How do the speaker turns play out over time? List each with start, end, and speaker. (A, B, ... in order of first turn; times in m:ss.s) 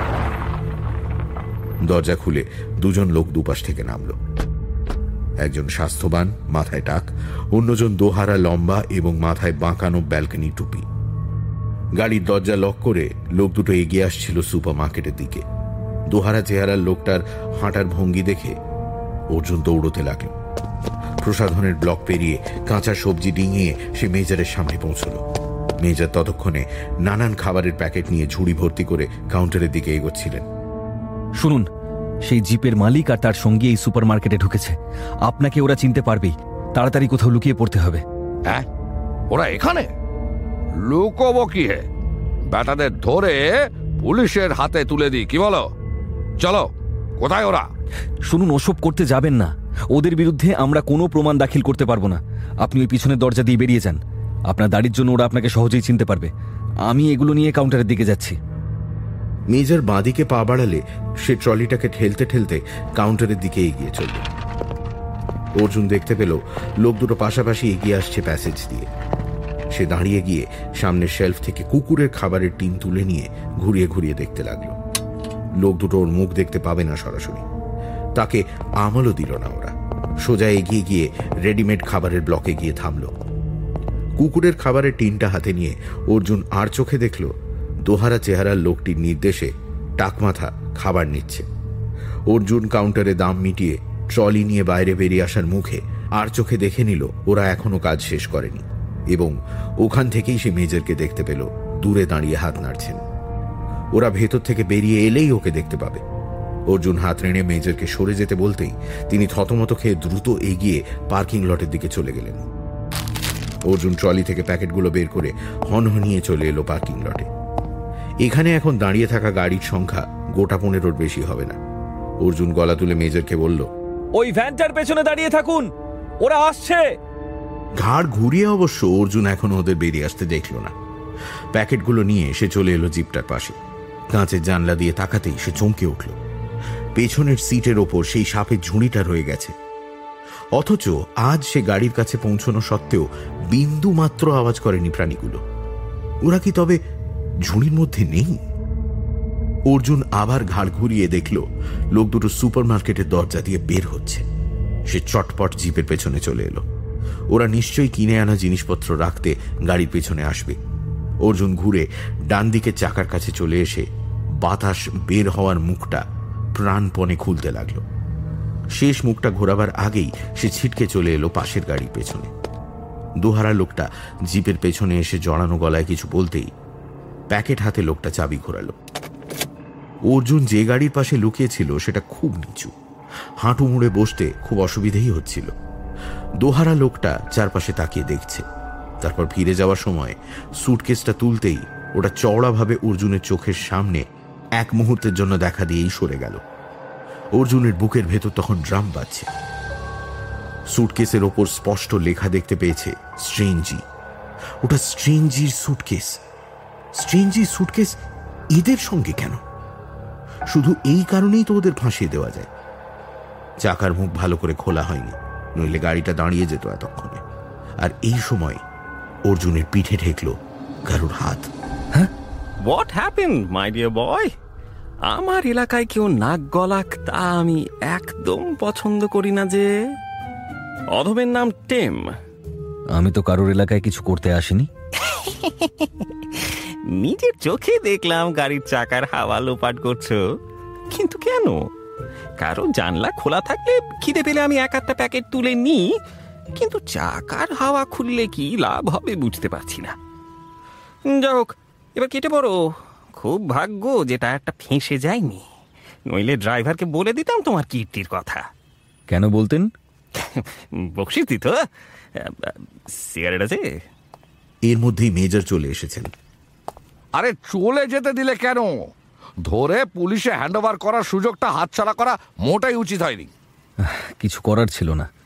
0:01.8-0:04.2 A
0:05.4-0:10.8 A
0:12.0-0:15.4 A
0:16.1-0:18.6 A
0:19.3-0:20.3 A
0:21.2-0:25.2 A
0:25.8-0:30.4 A
0:31.4-0:31.7 B
0:32.2-0:38.0 B
0:39.3-0:39.9 C
0:40.8-0:41.8 C
0:42.5-0:45.7 C
0:46.4-0:46.7 C
0:47.2-0:47.7 C
0:48.3-0:56.3 B
0:56.8-0:58.4 B
0:59.5-1:04.3 A
1:05.6-1:08.9 A
1:09.7-1:14.8 A
1:15.6-1:17.4 A
1:18.2-1:23.2 A
1:24.2-1:31.5 A
1:32.3-1:43.0 A
1:43.9-1:46.0 A
1:46.7-1:52.4 A
1:53.7-1:57.3 A
1:58.2-2:01.6 A
2:02.2-2:03.7 A
2:04.1-2:06.9 B
2:07.8-2:10.7 A
2:11.5-2:13.6 A
2:14.1-2:16.2 A
2:17.0-2:19.5 A
2:20.5-2:25.4 A
2:26.2-2:26.8 A
2:27.4-2:28.4 A
2:29.7-2:34.2 A
2:34.9-2:36.6 A
2:37.3-2:40.6 A
2:41.2-2:43.9 A
2:44.4-2:46.0 A
2:46.6-2:47.8 A
2:48.8-2:52.3 A
2:53.2-2:56.5 A
2:57.3-2:58.7 A
3:00.1-3:02.7 A
3:03.4-3:05.5 A
3:06.4-3:08.4 A
3:09.0-3:16.4 A
3:17.3-3:19.3 A
3:20.7-3:23.8 A
3:24.6-3:26.2 A
3:27.0-3:28.0 A
3:28.5-3:29.4 A
3:30.5-3:32.5 A
3:33.6-3:37.2 A
3:37.8-3:38.6 A
3:39.3-3:41.5 A
3:42.6-3:44.3 D
3:45.1-3:49.7 D
3:50.9-3:52.1 D
3:52.9-3:54.7 B
3:55.0-4:00.2 D
4:00.9-4:01.6 D
4:02.4-4:05.9 D
4:06.6-4:10.0 D
4:11.1-4:12.6 D
4:13.1-4:15.5 D
4:16.1-4:18.4 D
4:19.1-4:19.7 B
4:20.2-4:21.6 D
4:22.2-4:23.7 D
4:24.6-4:26.1 A
4:27.1-4:28.8 C
4:29.4-4:33.3 C
4:33.8-4:35.1 B